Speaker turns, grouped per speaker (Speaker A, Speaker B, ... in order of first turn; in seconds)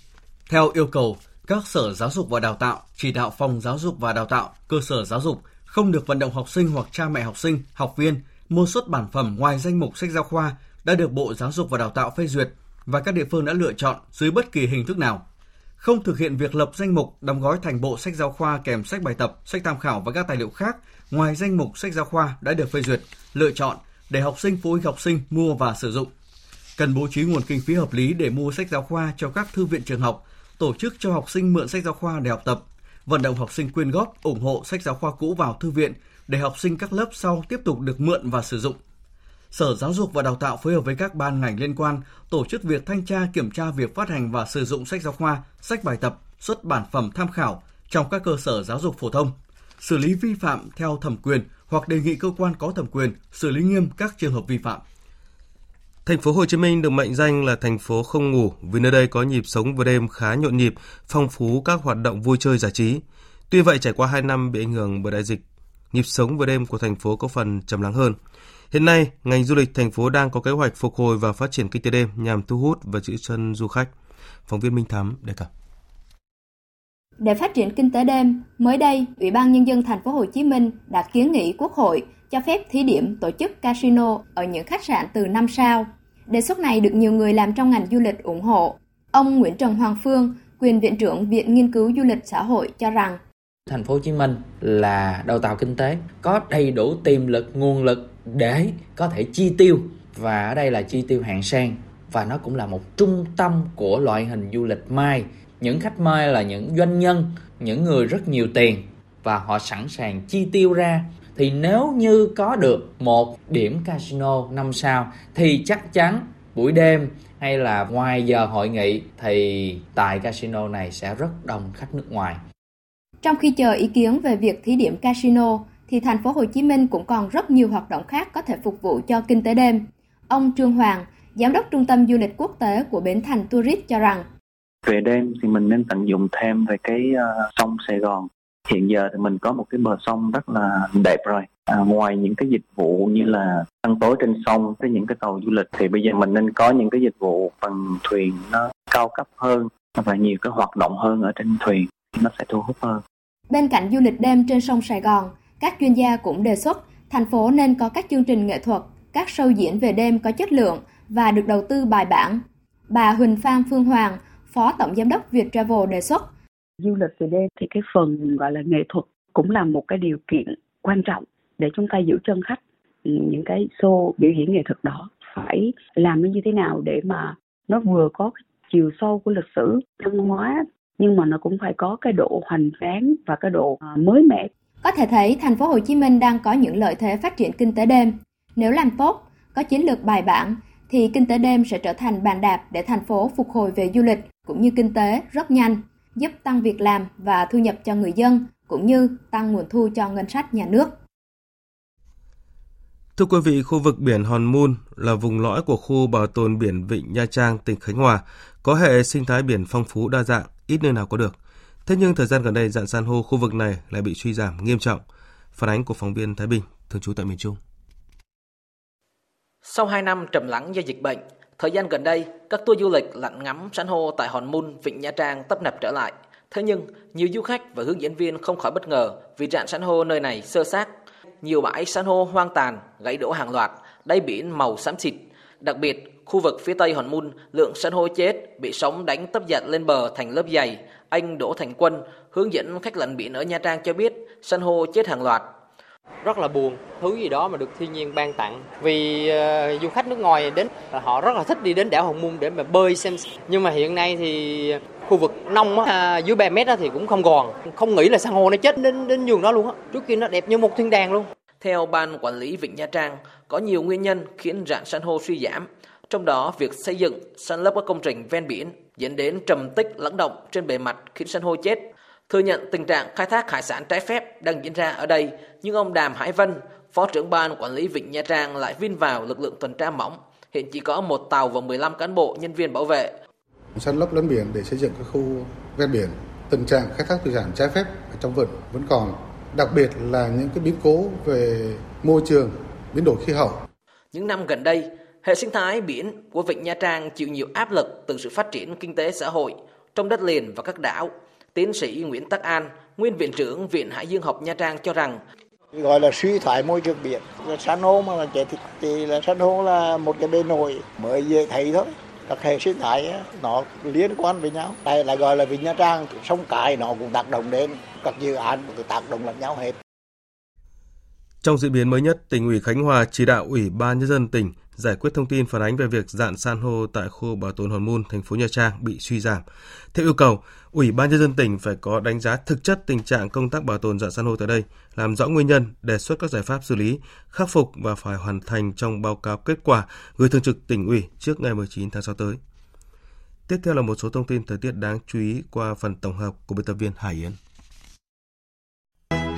Speaker A: 0.5-15.2, 15.8-26.1, 26.8-38.8, 39.5-54.8
Speaker B: 56.0-68.2, 68.7-73.9, 74.5-75.5, 203.2-215.0, 215.6-217.6, 321.4-342.4, 343.5-347.4
Speaker C: 77.2-93.2, 123.2-134.3, 153.5-166.3, 184.8-200.9
Speaker D: 93.7-122.4
Speaker E: 134.8-153.0
Speaker F: 166.8-184.5
Speaker G: 219.6-245.5, 261.6-283.1, 294.1-305.2
Speaker H: 246.3-261.2
Speaker I: 283.8-293.6
Speaker J: 305.7-319.7